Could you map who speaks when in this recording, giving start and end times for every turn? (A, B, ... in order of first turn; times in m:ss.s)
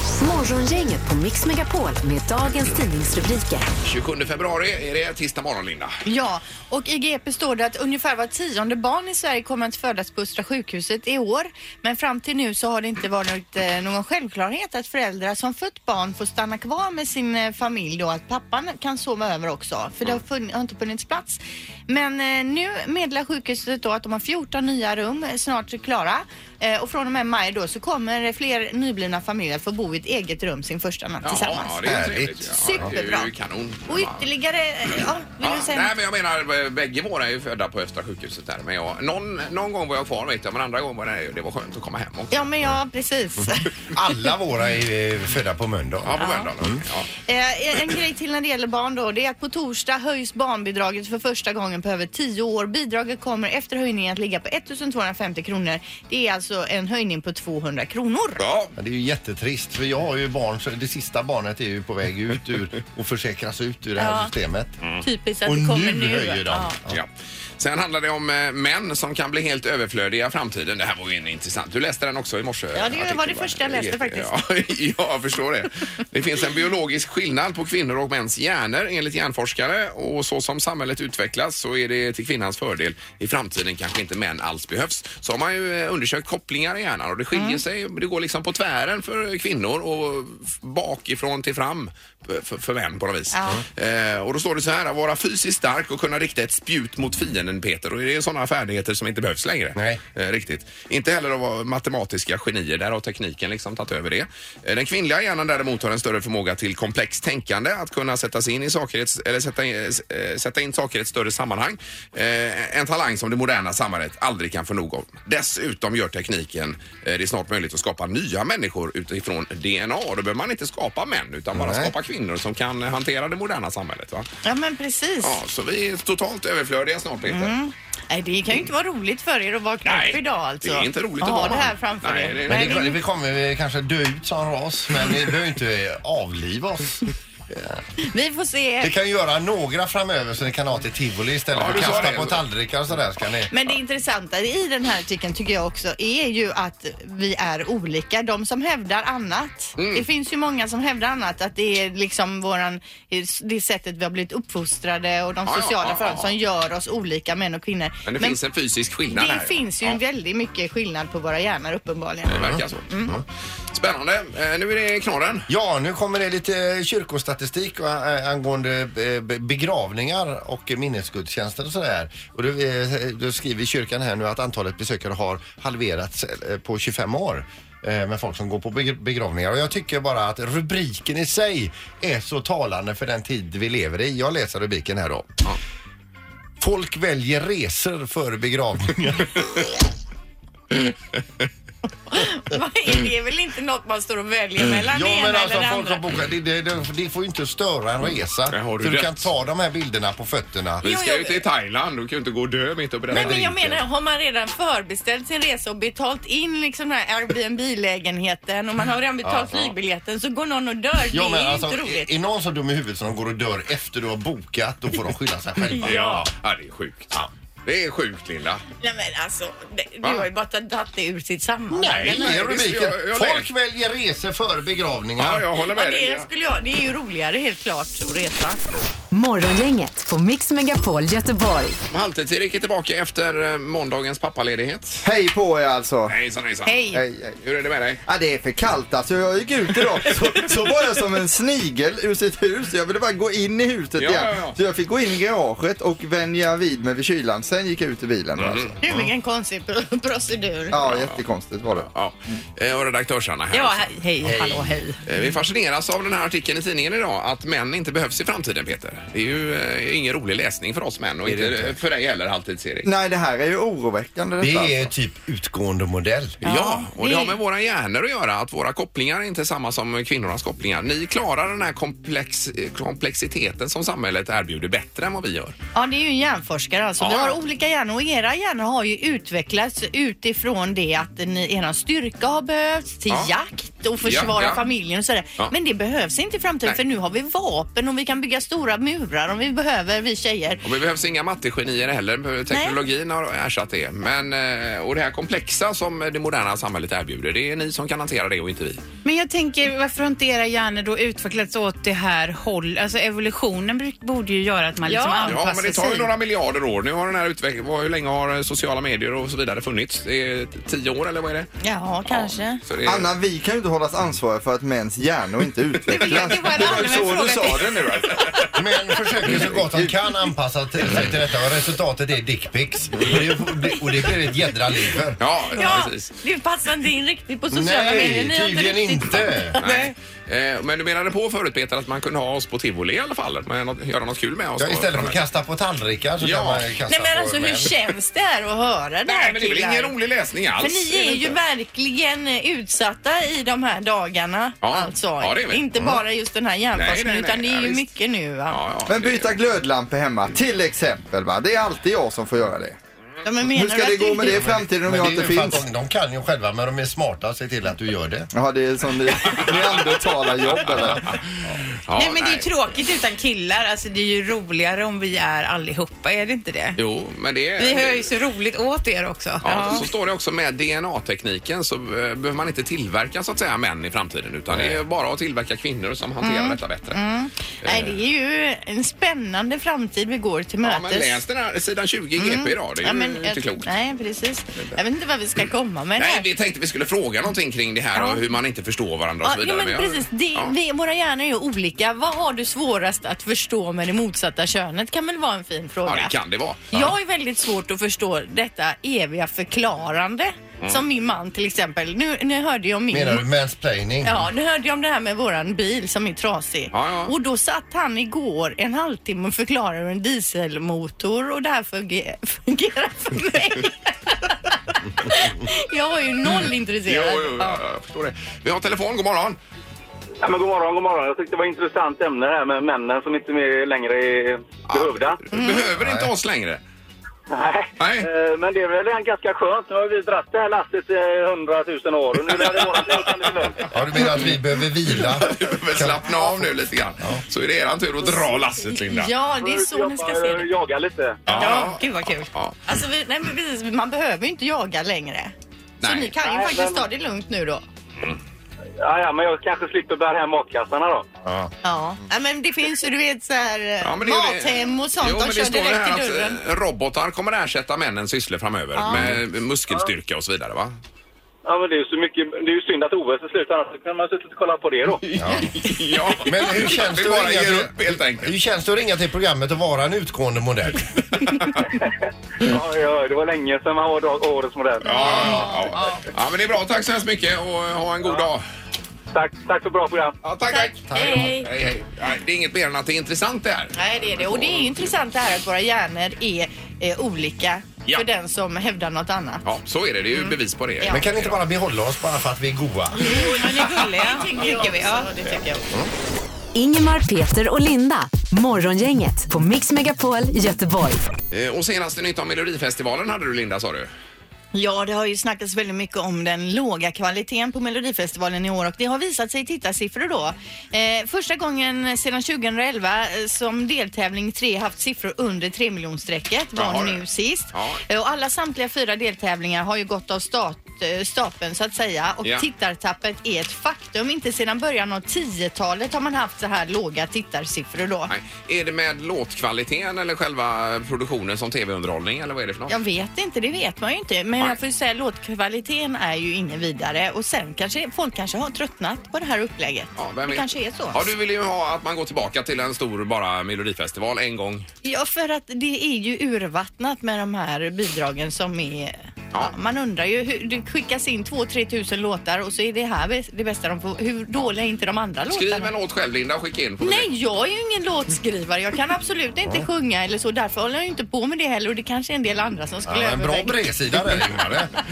0:00.1-0:03.7 A
0:03.8-0:06.0 B
0:06.0-0:33.3 C
0:31.2-0:34.3 B
0:31.8-0:32.9 D
0:33.9-0:35.9 C
0:35.4-0:42.4 B
0:42.3-0:43.7 C
0:43.9-0:46.8 D
0:46.0-0:47.1 B
0:46.2-0:46.5 C
0:47.2-0:58.4 C
0:58.4-0:58.7 B
0:58.8-1:04.8 D
1:04.0-1:04.3 C
1:05.0-1:06.8 C
1:05.4-1:07.0 D
1:06.9-2:04.3 B
1:12.7-1:14.3 C
1:27.3-1:27.6 C
1:33.3-1:33.6 C
1:39.8-1:40.0 D
2:01.5-2:01.9 D
2:04.4-2:05.4 C
2:05.2-2:07.6 B
2:07.3-2:13.0 C
2:09.8-2:12.9 B
2:12.5-2:17.8 D
2:18.0-2:18.9 C
2:18.8-2:23.5 D
2:21.5-2:22.4 B
2:23.5-2:38.4 C
2:29.8-2:30.0 B
2:35.4-2:36.3 B
2:38.0-2:40.0 B
2:39.1-2:43.1 C
2:42.3-2:43.1 B
2:42.4-2:43.2 D
2:43.7-2:45.5 B
2:45.5-3:05.4 D
3:06.6-3:09.5 D
3:12.1-3:16.0 C
3:14.9-3:20.8 D
3:18.5-3:19.3 B
3:20.8-3:21.4 C
3:20.8-3:23.4 B
3:23.1-3:23.8 D
3:23.1-3:32.1 C
3:29.2-3:29.7 D
3:31.1-3:36.2 D
3:35.8-3:37.1 B
3:35.8-3:36.2 C
3:37.6-3:38.6 B
3:38.8-3:42.3 C
3:41.7-3:45.4 D
3:41.8-3:43.5 B
3:45.2-3:46.3 B
3:45.7-3:48.6 C
3:49.1-3:51.8 A
3:51.9-3:55.0 B
3:55.0-3:56.1 E
3:56.1-3:56.9 B
3:56.6-3:57.0 F
3:56.9-3:57.4 E
3:57.4-3:58.0 B
3:58.1-4:08.7 E
4:04.0-4:04.6 B
4:08.4-4:08.7 B
4:08.8-4:10.8 C
4:10.7-4:11.9 E
4:10.8-4:13.9 B
4:13.5-4:15.0 F
4:14.2-4:14.7 D
4:15.0-4:22.9 B
4:21.2-4:21.8 D
4:22.8-4:24.9 E
4:24.4-4:26.4 D
4:26.4-4:35.5 B
4:26.4-4:27.4 C
4:35.7-4:50.6 C
4:37.0-4:37.4 B
4:44.0-4:44.6 B
4:50.6-4:58.8 B
4:52.5-4:52.8 C
4:59.0-5:06.1 F
5:04.8-5:05.4 C
5:05.2-5:11.5 B
5:11.6-5:12.6 C
5:12.0-5:13.1 B
5:12.8-5:18.5 E
5:15.9-5:18.0 F
5:18.5-5:25.2 D
5:19.3-5:19.9 E
5:25.2-5:26.1 B
5:25.5-5:29.9 C
5:27.5-5:29.6 D
5:29.6-5:35.2 B
5:34.6-5:37.7 D
5:36.2-5:36.6 B
5:36.9-5:39.9 C
5:39.0-5:41.4 B
5:40.6-5:48.6 C
5:44.6-5:46.0 B
5:46.7-5:47.9 B
5:48.5-5:49.4 B
5:48.9-5:52.8 E
5:53.2-5:54.5 C
5:53.5-5:55.6 E
5:54.2-5:58.3 D
5:58.3-6:01.2 E
6:01.9-6:02.5 B
6:01.9-6:06.8 F
6:06.8-6:08.1 B
6:07.6-6:09.8 F
6:09.4-6:17.0 B
6:09.5-6:09.8 C
6:14.5-6:14.8 D
6:16.2-6:21.2 C
6:17.6-6:18.0 B
6:20.6-6:23.7 B
6:22.2-6:26.3 C
6:26.0-6:30.5 B
6:27.9-6:28.2 C
6:29.2-6:36.1 C
6:35.8-6:36.9 B
6:36.7-6:43.2 C
6:42.9-6:44.2 D
6:44.0-6:57.6 C
6:46.7-6:47.1 B
6:56.8-6:59.4 B
7:00.2-7:05.2 G
7:04.7-7:06.6 B
7:05.3-7:05.7 C
7:05.8-7:06.1 D
7:07.3-7:13.6 G
7:07.8-7:08.1 B
7:12.5-7:13.0 B
7:13.7-7:16.3 D
7:15.0-7:19.1 B
7:18.7-7:20.5 C
7:19.4-7:21.3 G
7:21.3-7:22.6 B
7:21.3-7:27.6 C
7:25.8-7:26.1 B
7:26.2-7:26.8 G
7:28.8-7:31.1 G
7:31.6-7:36.4 C
7:33.8-7:40.7 B
7:38.8-7:39.1 C
7:38.9-7:39.2 D
7:41.4-7:45.0 G
7:45.0-7:48.3 B
7:45.2-7:45.5 D
7:46.2-7:50.9 D
7:52.4-7:55.4 G
7:54.8-7:58.4 B
7:54.9-7:56.0 C
7:59.1-8:00.2 G
8:00.2-8:04.8 B
8:00.5-8:01.5 C
8:00.9-8:01.6 D
8:03.7-8:09.4 C
8:09.4-8:11.4 B
8:10.1-8:11.0 C
8:10.9-8:13.2 D
8:13.0-8:15.7 C
8:13.1-8:15.1 F
8:16.5-8:21.1 A
8:21.3-8:23.9 B
8:24.5-8:48.1 C
8:36.6-8:37.8 B
8:48.1-8:52.8 B
8:52.7-9:01.1 C
9:00.0-9:04.7 B
9:04.8-9:15.7 C
9:15.3-9:17.1 B
9:16.8-9:23.6 C
9:22.8-9:24.7 D